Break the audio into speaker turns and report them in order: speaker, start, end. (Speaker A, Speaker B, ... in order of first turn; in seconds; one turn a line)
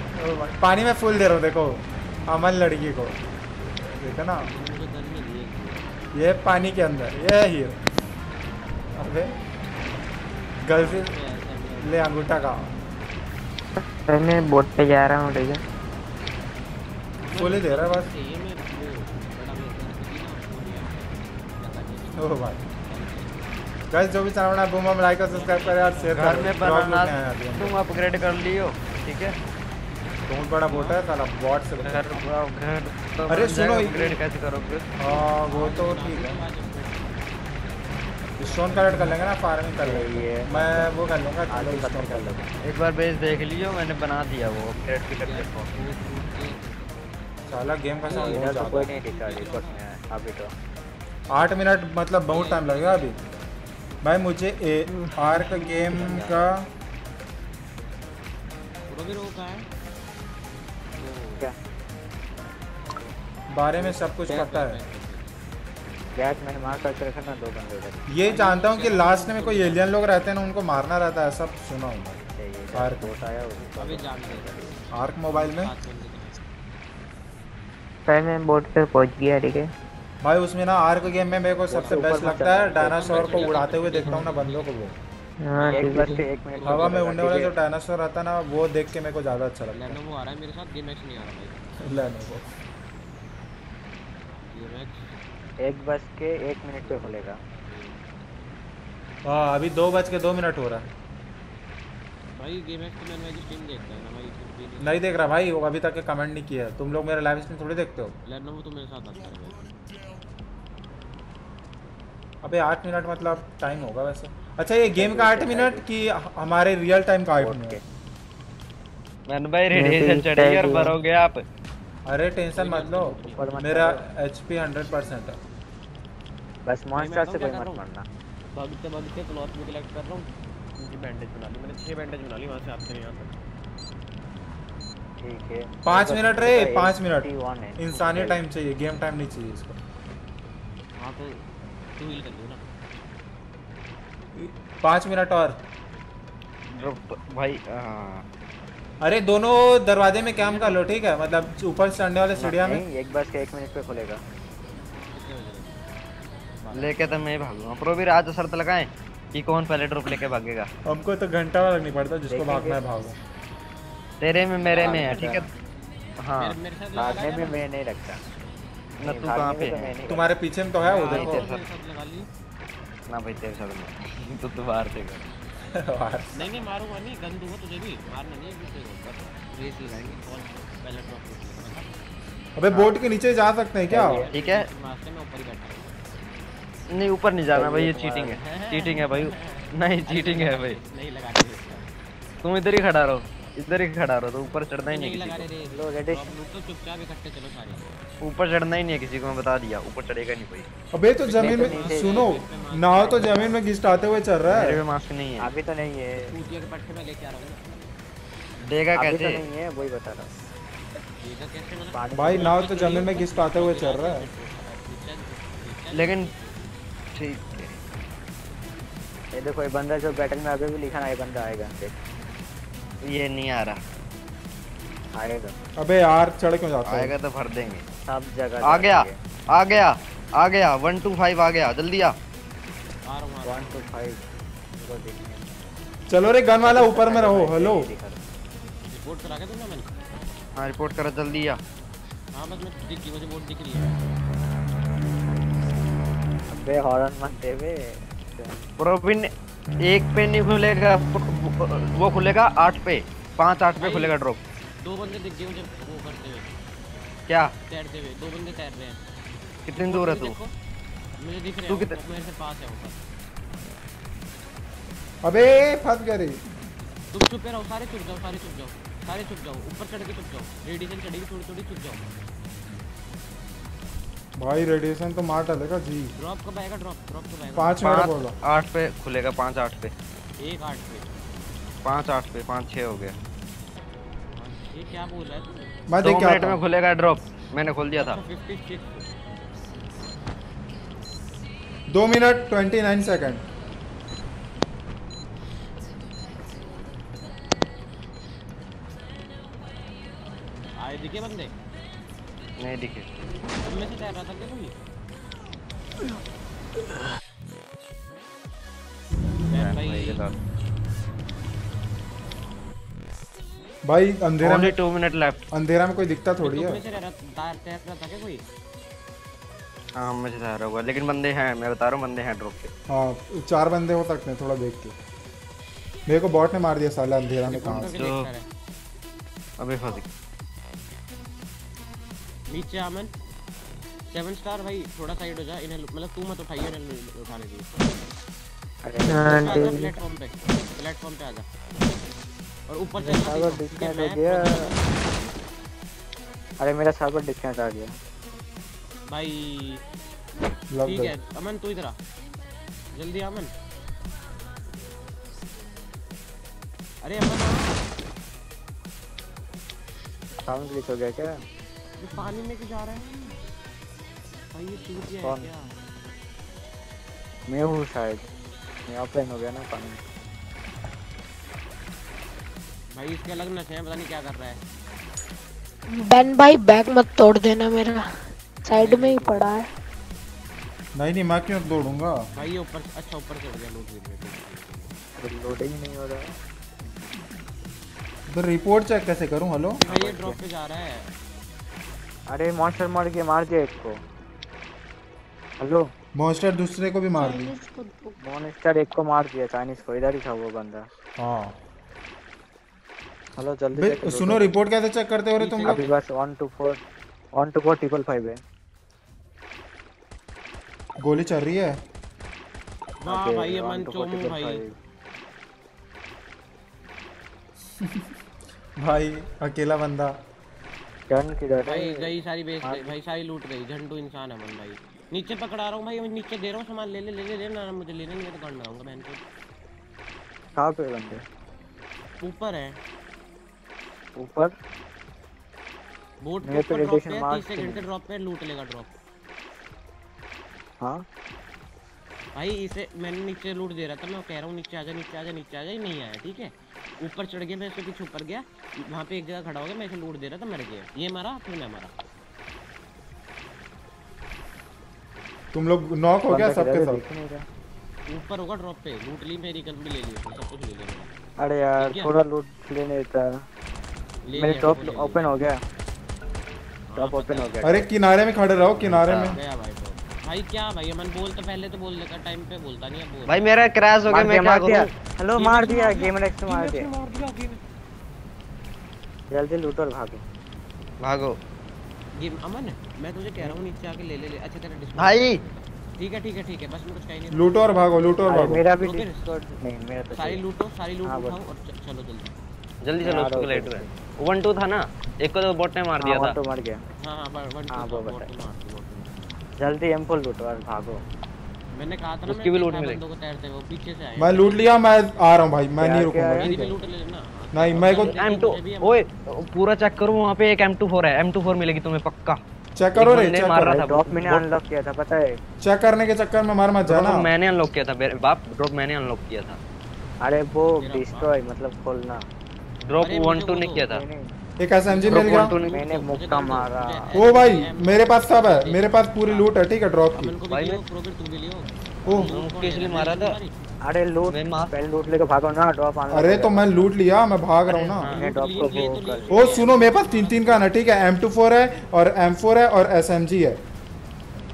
Speaker A: 0.2-3.1
Speaker A: 4.0-4.5
Speaker B: 4.4-6.0
Speaker A: 6.2-7.8
Speaker A: 9.0-9.3
Speaker A: 10.6-11.1
Speaker B: 10.8-12.2
Speaker A: 11.8-12.7
Speaker C: 13.8-15.6
Speaker B: 17.2-22.3
Speaker A: 17.4-18.1
Speaker A: 22.2-22.6
Speaker B: 22.9-23.5
Speaker A: 23.9-27.7
Speaker B: 25.3-26.6
Speaker D: 26.1-29.3
Speaker A: 30.2-32.2
Speaker B: 30.7-31.0
Speaker D: 31.8-34.9
Speaker A: 33.3-34.1
Speaker A: 35.0-36.4
Speaker B: 35.2-37.5
Speaker A: 38.4-42.3
Speaker E: 39.8-40.9
Speaker E: 41.5-42.5
Speaker D: 42.7-45.5
Speaker B: 45.1-49.8
Speaker A: 47.5-48.9
Speaker E: 48.1-50.5
Speaker A: 51.3-53.1
Speaker B: 52.3-53.3
Speaker A: 54.0-56.6
Speaker B: 55.4-56.3
Speaker B: 58.9-59.6
Speaker B: 61.0-61.5
Speaker A: 63.5-64.8
Speaker B: 63.7-65.3
Speaker E: 66.2-68.0
Speaker B: 66.3-67.0
Speaker A: 68.1-72.2
Speaker B: 68.2-69.8
Speaker E: 72.4-74.7
Speaker A: 72.7-73.1
Speaker B: 73.6-74.8
Speaker A: 74.9-75.7
Speaker B: 75.3-76.4
Speaker C: 78.0-79.7
Speaker A: 80.2-84.9
Speaker E: 81.7-83.3
Speaker B: 81.8-82.1
Speaker B: 82.9-84.7
Speaker C: 85.4-86.2
Speaker B: 85.6-87.0
Speaker E: 85.7-87.5
Speaker A: 86.6-90.0
Speaker B: 89.7-91.6
Speaker A: 91.8-92.5
Speaker B: 94.5-95.1
Speaker E: 95.6-97.4
Speaker B: 96.8-98.0
Speaker A: 99.2-100.8
Speaker B: 102.3-105.3
Speaker A: 104.8-108.1
Speaker B: 108.2-109.7
Speaker A: 112.4-117.8
Speaker E: 114.8-115.8
Speaker E: 117.4-117.8
Speaker D: 119.3-121.4
Speaker C: 119.7-120.9
Speaker A: 122.1-125.4
Speaker B: 122.5-123.6
Speaker E: 123.3-124.0
Speaker E: 126.7-128.0
Speaker B: 127.0-127.8
Speaker B: 128.5-130.3
Speaker B: 130.8-133.3
Speaker E: 135.2-138.4
Speaker A: 135.8-139.8
Speaker B: 137.9-138.2
Speaker B: 141.0-141.4
Speaker B: 142.0-142.6
Speaker A: 144.3-145.6
Speaker D: 146.7-148.2
Speaker A: 149.0-152.8
Speaker B: 150.4-150.8
Speaker E: 152.3-154.2
Speaker B: 155.0-155.8
Speaker B: 156.6-157.2
Speaker D: 156.7-160.7
Speaker A: 160.9-163.2
Speaker E: 162.3-162.8
Speaker D: 164.2-165.5
Speaker B: 164.6-165.3
Speaker E: 164.8-165.5
Speaker D: 166.2-166.6
Speaker B: 166.4-167.6
Speaker E: 166.9-168.2
Speaker D: 169.0-170.0
Speaker E: 169.0-170.3
Speaker A: 170.1-171.4
Speaker B: 170.8-172.3
Speaker D: 171.0-171.6
Speaker D: 173.1-175.3
Speaker A: 175.7-176.5
Speaker B: 176.3-181.9
Speaker A: 182.6-184.2
Speaker E: 183.9-184.2
Speaker B: 184.1-186.0
Speaker D: 184.2-184.7
Speaker D: 186.9-190.8
Speaker B: 187.7-191.9
Speaker D: 192.4-195.5
Speaker B: 194.9-198.0
Speaker E: 195.7-196.3
Speaker D: 198.2-200.7
Speaker A: 200.9-204.8
Speaker B: 201.2-203.6
Speaker E: 201.4-202.2
Speaker D: 204.5-205.5
Speaker E: 205.4-206.2
Speaker B: 206.2-207.9
Speaker D: 208.7-209.4
Speaker E: 208.9-210.3
Speaker B: 211.2-216.7
Speaker E: 211.9-212.6
Speaker A: 212.2-214.2
Speaker D: 215.9-216.3
Speaker D: 217.2-217.8
Speaker E: 219.3-221.9
Speaker D: 223.1-223.8
Speaker E: 225.1-225.5
Speaker A: 225.8-227.1
Speaker D: 226.8-227.8
Speaker E: 228.1-229.2
Speaker D: 228.6-232.1
Speaker B: 233.1-233.8
Speaker E: 233.4-234.2
Speaker E: 234.8-235.4
Speaker A: 236.1-237.9
Speaker E: 236.6-238.2
Speaker B: 238.8-239.9
Speaker D: 240.6-241.6
Speaker B: 242.3-244.1
Speaker E: 246.5-247.7
Speaker E: 248.4-248.6
Speaker D: 248.8-249.3
Speaker D: 249.9-254.4
Speaker B: 253.8-254.1
Speaker B: 254.8-256.5
Speaker B: 257.7-259.0
Speaker D: 259.7-260.4
Speaker B: 259.7-260.5
Speaker B: 261.2-263.0
Speaker D: 261.7-262.0
Speaker A: 265.2-266.4
Speaker B: 267.1-272.0
Speaker A: 274.4-276.1
Speaker B: 276.2-277.8
Speaker A: 277.5-278.3
Speaker D: 277.8-279.9
Speaker B: 280.4-281.1
Speaker D: 281.8-283.1
Speaker B: 284.3-285.7
Speaker A: 285.9-286.6
Speaker D: 286.0-288.2
Speaker B: 288.0-289.1
Speaker A: 291.9-293.4
Speaker B: 300.8-301.5
Speaker D: 302.6-303.1
Speaker B: 303.6-304.7
Speaker B: 309.5-310.2
Speaker D: 309.5-310.3
Speaker A: 313.9-314.8
Speaker D: 314.4-315.4
Speaker A: 315.5-316.8
Speaker B: 316.4-318.4
Speaker D: 320.0-322.7
Speaker A: 322.9-324.9
Speaker A: 326.1-327.9
Speaker B: 327.4-328.5
Speaker D: 327.9-328.3
Speaker D: 329.6-330.1
Speaker B: 332.5-333.1
Speaker B: 334.1-337.8
Speaker E: 338.8-339.9
Speaker C: 339.1-339.7
Speaker B: 339.2-341.4
Speaker B: 342.7-345.0
Speaker E: 343.0-344.7
Speaker E: 346.6-347.9
Speaker B: 349.1-349.8
Speaker A: 350.7-351.1
Speaker B: 350.8-351.9
Speaker B: 352.9-353.5
Speaker B: 357.0-357.8
Speaker E: 360.4-361.3
Speaker B: 362.0-363.2
Speaker B: 364.5-365.6
Speaker E: 365.2-365.5
Speaker E: 367.5-368.2
Speaker E: 368.9-370.0
Speaker B: 372.9-374.6
Speaker F: 375.9-378.1
Speaker F: 378.6-379.7
Speaker B: 378.8-379.5
Speaker A: 380.9-382.1
Speaker B: 382.4-384.9
Speaker E: 385.2-386.3
Speaker A: 388.3-389.8
Speaker B: 389.8-391.1
Speaker E: 389.9-390.4
Speaker E: 392.3-394.0
Speaker A: 396.1-397.5
Speaker F: 397.2-398.1
Speaker E: 398.2-400.9
Speaker A: 401.2-401.5
Speaker E: 403.4-404.5
Speaker A: 403.8-405.8
Speaker B: 405.4-405.9
Speaker E: 405.6-406.8
Speaker E: 407.3-408.4
Speaker A: 411.0-411.8
Speaker B: 413.0-414.6
Speaker E: 413.1-414.7
Speaker A: 417.8-418.1
Speaker A: 418.8-420.1
Speaker E: 421.1-422.1
Speaker B: 421.6-429.2
Speaker E: 422.6-423.0
Speaker E: 430.6-431.2
Speaker B: 432.2-432.8
Speaker E: 434.1-434.5
Speaker B: 436.2-438.9
Speaker E: 436.4-437.9
Speaker B: 442.3-451.9
Speaker A: 455.5-457.0
Speaker E: 456.3-457.4
Speaker B: 458.1-461.1
Speaker E: 461.4-463.3
Speaker B: 461.8-462.1
Speaker B: 464.3-465.3
Speaker E: 464.3-465.6
Speaker B: 466.9-467.7
Speaker E: 466.9-467.9
Speaker A: 467.6-469.4
Speaker D: 468.8-469.4
Speaker B: 469.3-473.4
Speaker D: 473.3-474.9
Speaker E: 474.1-476.9
Speaker B: 475.4-477.6
Speaker E: 479.3-480.2
Speaker D: 481.0-481.3
Speaker B: 482.2-487.7
Speaker D: 485.0-485.4
Speaker A: 487.3-488.6
Speaker E: 488.2-490.4
Speaker B: 488.8-489.6
Speaker B: 490.1-492.3
Speaker E: 491.0-491.4
Speaker D: 492.8-496.4
Speaker E: 493.0-493.9
Speaker E: 496.0-496.8
Speaker B: 497.0-499.1
Speaker E: 497.7-498.3
Speaker E: 499.6-501.0
Speaker B: 501.8-504.7
Speaker D: 502.3-503.0
Speaker A: 504.2-506.6
Speaker E: 505.8-506.8
Speaker B: 506.4-509.0
Speaker A: 507.5-508.1
Speaker D: 507.9-512.4
Speaker A: 512.8-513.7
Speaker D: 512.9-514.5
Speaker E: 513.6-515.4
Speaker A: 515.6-517.3
Speaker D: 516.9-519.6
Speaker E: 520.2-522.2
Speaker B: 520.6-521.3
Speaker D: 522.9-524.0
Speaker B: 523.0-523.9
Speaker E: 523.9-524.3
Speaker A: 524.6-525.5
Speaker B: 524.9-529.5
Speaker D: 525.1-525.8
Speaker E: 525.5-527.3
Speaker A: 527.1-530.3
Speaker B: 530.1-533.5
Speaker D: 530.5-530.8
Speaker A: 532.0-532.3
Speaker D: 532.3-533.4
Speaker E: 533.8-536.9
Speaker D: 534.2-534.7
Speaker A: 536.1-538.1
Speaker D: 537.7-538.3
Speaker E: 538.0-539.5
Speaker B: 538.1-540.7
Speaker A: 539.3-543.6